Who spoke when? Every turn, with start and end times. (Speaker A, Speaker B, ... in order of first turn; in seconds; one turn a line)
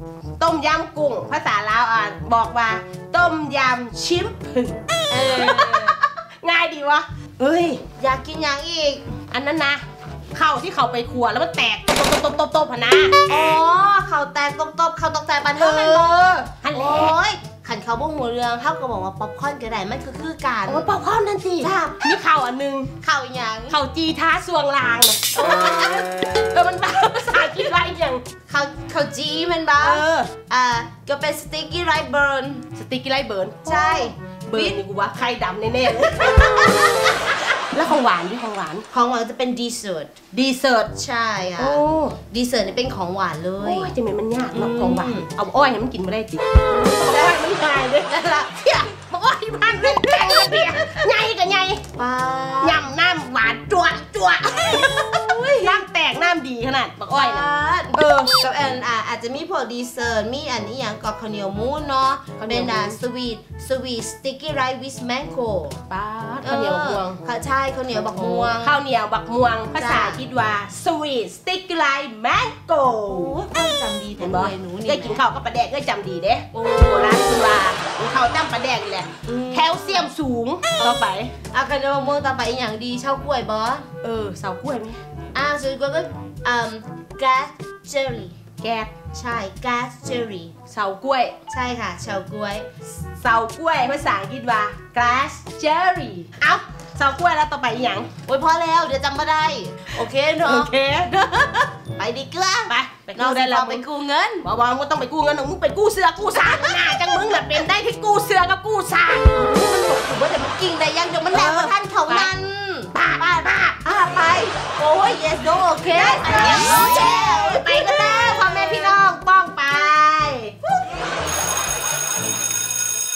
Speaker A: 0.4-7.8
Speaker B: 5.1-6.0
Speaker B: 8.0-9.0
Speaker A: 9.3-13.2
Speaker B: 13.3-20.9
Speaker A: 15.6-17.2
Speaker A: 20.7-22.9
Speaker B: 21.6-22.0
Speaker B: 23.0-23.8
Speaker A: 23.7-28.2
Speaker B: 25.3-26.1
Speaker B: 28.5-32.7
Speaker A: 29.8-30.3
Speaker A: 32.8-37.2
Speaker B: 33.6-34.8
Speaker B: 36.0-37.4
Speaker A: 37.7-38.9
Speaker B: 38.9-40.1
Speaker A: 40.3-40.9
Speaker B: 40.9-43.9
Speaker A: 41.6-42.2
Speaker A: 43.6-51.8
Speaker B: 44.5-45.3
Speaker B: 46.7-47.4
Speaker B: 48.0-48.9
Speaker B: 49.7-51.1
Speaker B: 52.0-52.9
Speaker A: 52.6-58.3
Speaker B: 54.6-55.9
Speaker B: 57.1-65.8
Speaker A: 62.4-63.0
Speaker A: 65.9-67.2
Speaker B: 66.4-68.8
Speaker A: 68.2-73.3
Speaker B: 69.7-70.2
Speaker B: 73.0-75.2
Speaker A: 74.2-81.3
Speaker B: 76.5-77.6
Speaker B: 79.2-80.1
Speaker B: 81.5-83.9
Speaker A: 84.0-85.0
Speaker B: 85.3-88.4
Speaker A: 88.6-88.9
Speaker B: 89.1-90.5
Speaker A: 90.7-91.4
Speaker B: 91.5-92.7
Speaker A: 93.1-98.1
Speaker B: 98.3-104.5
Speaker A: 100.4-101.1
Speaker A: 102.7-103.8
Speaker A: 104.4-109.3
Speaker B: 106.4-107.5
Speaker B: 109.3-112.9
Speaker A: 111.3-112.3
Speaker A: 112.9-114.5
Speaker B: 113.8-119.1
Speaker A: 115.9-120.5